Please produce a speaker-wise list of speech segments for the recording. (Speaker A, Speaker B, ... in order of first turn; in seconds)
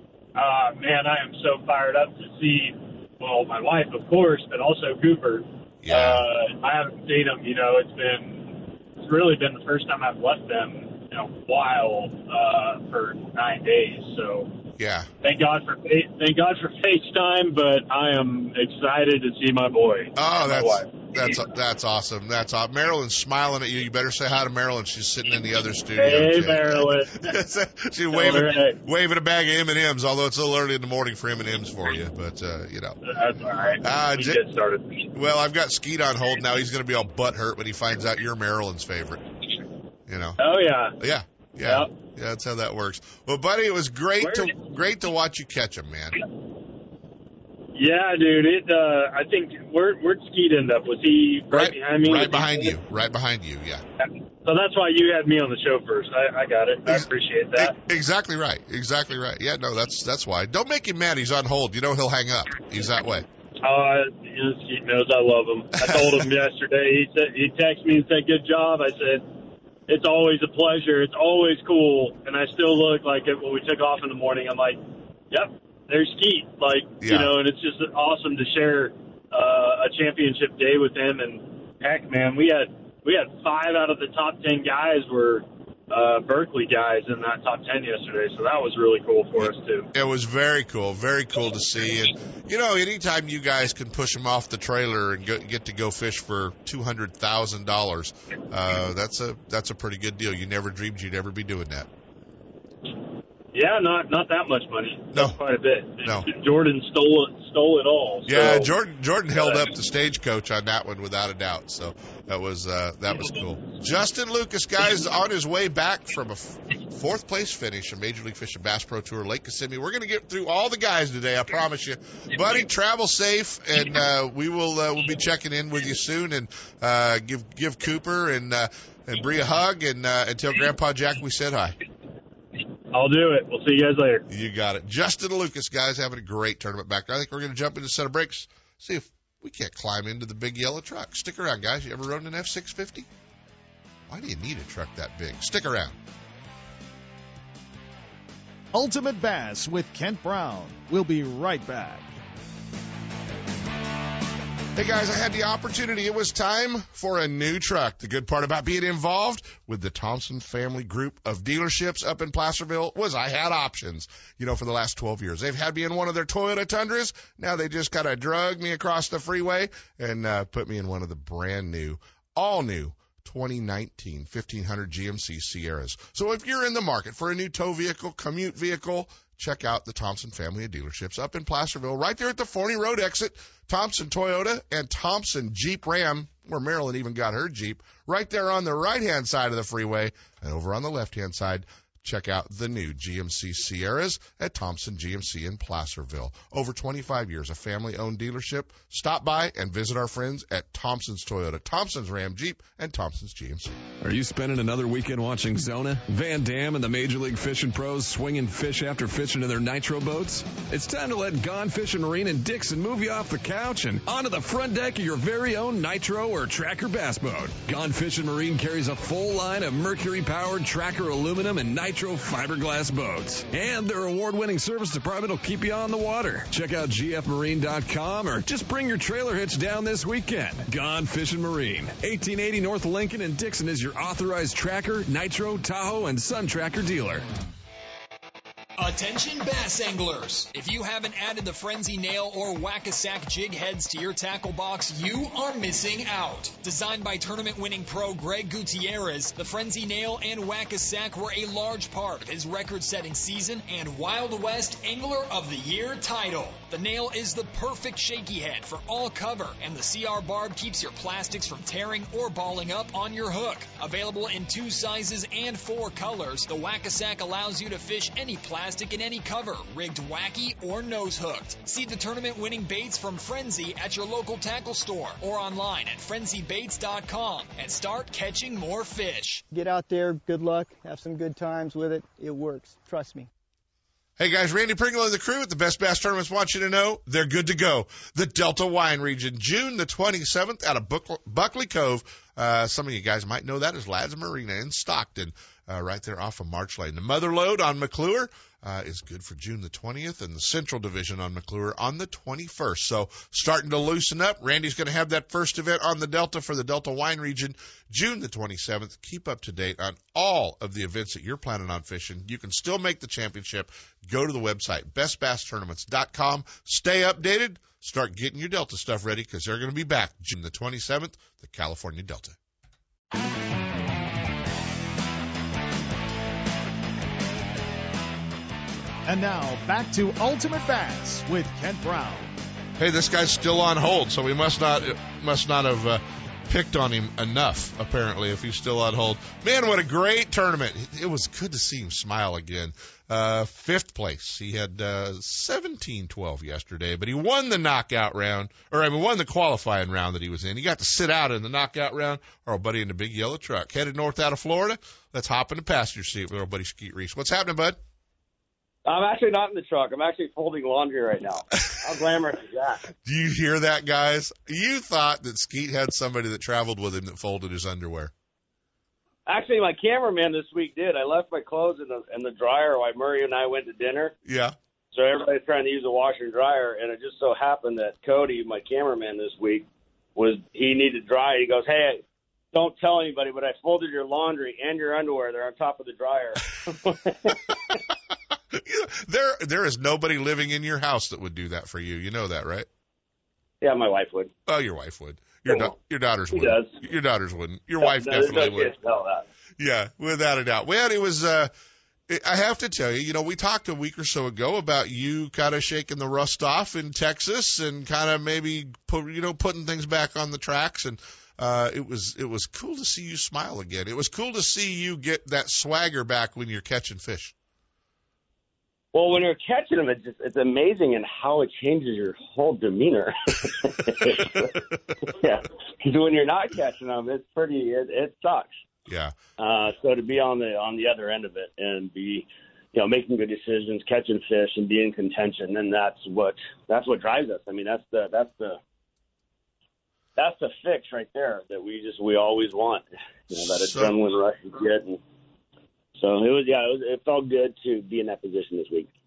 Speaker A: 0.3-14.5, 15.2-21.4, 26.0-27.3, 28.1-28.8, 33.0-35.1, 40.4-41.0, 44.2-44.5, 47.7-52.7, 54.0-57.8, 63.6-69.3, 69.9-89.9, 103.5-108.8, 109.3-109.7, 132.9-134.2
Speaker B: 5.8-6.2, 14.8-15.1, 20.1-33.0, 33.8-34.4, 35.1-39.3, 40.1-46.2, 51.5-53.8, 56.9-63.2, 77.0-77.3, 89.4-101.9, 105.1-105.4, 106.0-106.3, 108.2-131.8, 134.3-143.1, 144.1-145.9, 154.7-203.7, 284.2-322.4, 332.8-357.8, 363.0-368.1, 374.2-374.5, 388.5-392.7, 394.5-398.7, 399.6-401.5, 402.1-417.3, 428.9-429.1, 443.4-443.9
Speaker C: 148.7-152.1, 329.1-332.3
Speaker D: 204.0-237.3
Speaker E: 238.8-279.4
Speaker F: 279.5-283.3
Speaker G: 358.9-362.8, 369.3-374.1, 374.9-387.5, 393.6-394.3, 395.4-395.7, 396.3-396.7, 397.8-399.2, 418.9-428.6, 429.4-438.6, 440.2-445.0, 446.0-448.9